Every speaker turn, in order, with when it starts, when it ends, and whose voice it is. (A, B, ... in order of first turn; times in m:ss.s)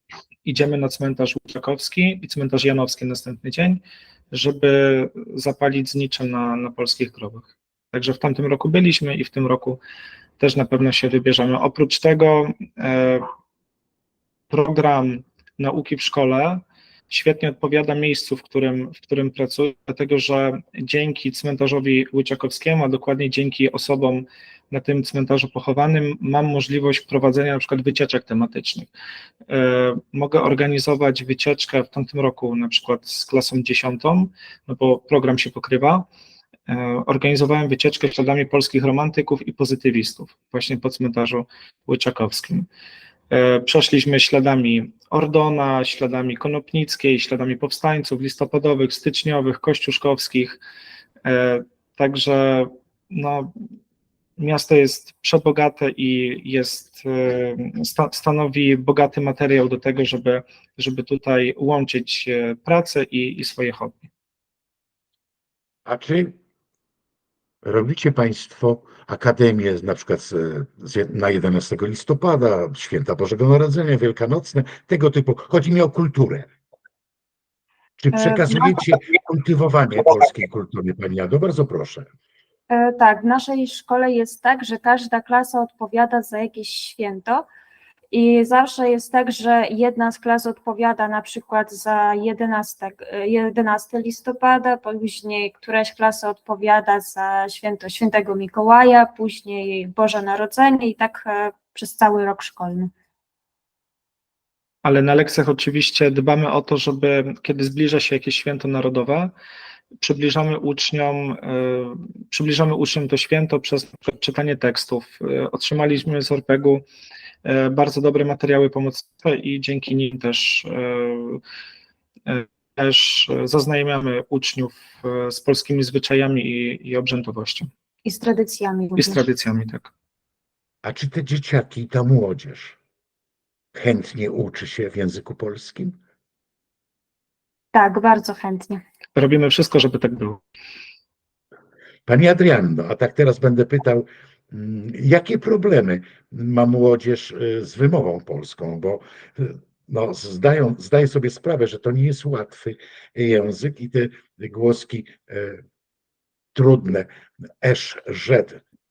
0:00.4-0:09.8 A
0:10.4-0:13.3 A
0:14.5-0:28.9 A
0:29.5-0:36.0 A
0:36.7-0:42.7 A
0:43.3-0:50.6 A
0:51.2-0:53.5 A
0:54.4-1:04.1 A
1:05.8-1:06.3 B
1:07.6-1:16.5 B
1:18.0-1:22.1 B
1:18.1-1:18.8 C
1:22.7-1:27.4 C
1:28.1-1:42.9 C
1:44.8-1:49.3 A
1:50.0-1:56.8 A
1:57.4-2:01.4 A
2:02.3-2:07.7 A
2:08.0-2:09.2 C
2:09.0-2:09.9 A
2:10.8-2:12.8 B
2:13.7-2:16.0 B
2:17.7-2:18.8 C
2:19.1-2:20.4 A
2:22.0-2:35.6 B
2:36.5-2:37.1 B
2:37.6-2:38.6 B